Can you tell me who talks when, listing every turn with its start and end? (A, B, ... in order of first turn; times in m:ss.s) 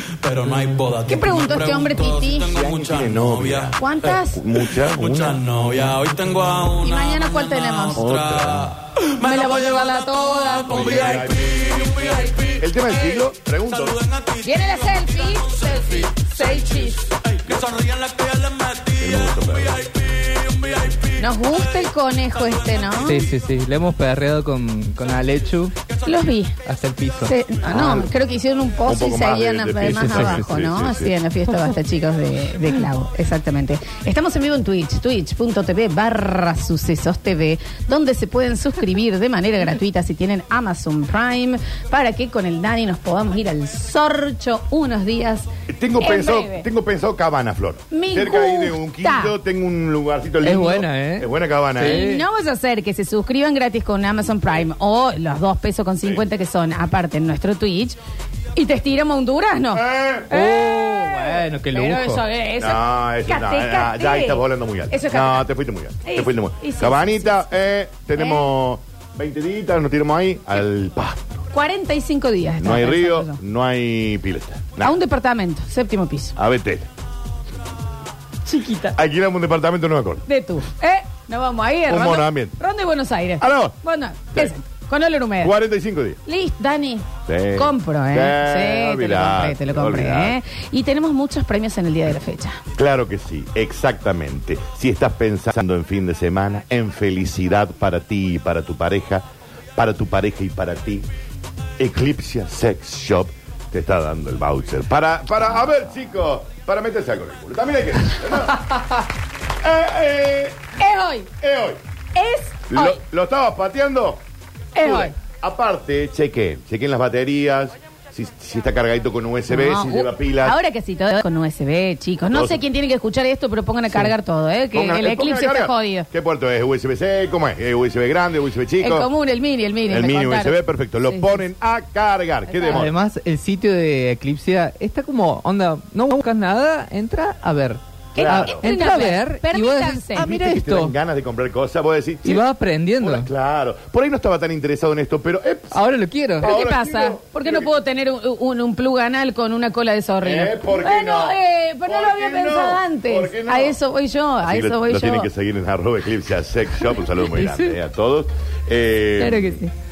0:00.2-0:03.8 A
0:01.1-0:02.6 B
0:02.5-0:06.0 C
0:03.8-0:04.4 B
0:04.6-0:23.0 A
0:06.8-0:08.1 B
0:08.0-0:08.7 C
0:09.2-0:11.2 B
0:10.7-0:11.8 C
0:12.6-0:14.0 C
0:14.4-0:17.1 B
0:19.0-0:19.8 C
0:21.2-0:23.2 B
0:23.0-0:25.7 D
0:26.1-0:26.5 B
0:26.6-0:27.3 D
0:27.2-0:46.7 B
0:27.7-0:28.1 C
0:28.8-0:31.1 C
0:29.9-0:30.5 D
0:45.7-0:52.1 C
0:47.9-0:49.3 B
0:50.4-0:52.2 D
0:51.8-0:58.0 B
0:58.6-1:05.4 B
0:59.7-1:00.3 C
1:00.3-1:02.2 D
1:02.6-1:11.4 C
1:06.0-1:07.5 B
1:08.1-1:08.5 B
1:11.5-1:13.4 B
1:12.6-1:15.0 C
1:14.8-1:16.3 B
1:16.4-1:16.9 C
1:18.4-1:19.0 B
1:19.0-1:20.2 C
1:20.3-1:25.6 B
1:21.9-1:22.6 C
1:23.4-1:23.8 C
1:25.4-1:26.2 C
1:26.3-1:32.6 B
1:27.3-1:30.4 C
1:32.8-1:39.2 C
1:39.8-1:41.1 C
1:41.8-1:48.8 C
1:49.6-1:50.7 C
1:50.8-1:51.3 B
1:51.4-1:51.8 C
1:52.1-1:53.0 B
1:52.7-1:54.2 C
1:54.8-1:55.1 B
1:54.8-2:00.6 C
1:59.5-2:06.1 B
2:02.3-2:02.6 C
2:04.7-2:09.1 C
2:08.8-2:11.5 B
2:09.9-2:12.9 C
2:12.5-2:12.8 B
2:12.7-2:20.9 D
2:18.1-2:20.3 B
2:18.2-2:18.7 C
2:20.2-2:22.4 C
2:22.2-2:23.3 D
2:23.0-2:25.8 C
2:25.7-2:26.5 D
2:26.4-2:27.7 C
2:26.4-2:35.3 B
2:30.2-2:33.8 C
2:34.4-2:39.6 C
2:37.3-2:37.7 D
2:39.2-2:39.7 B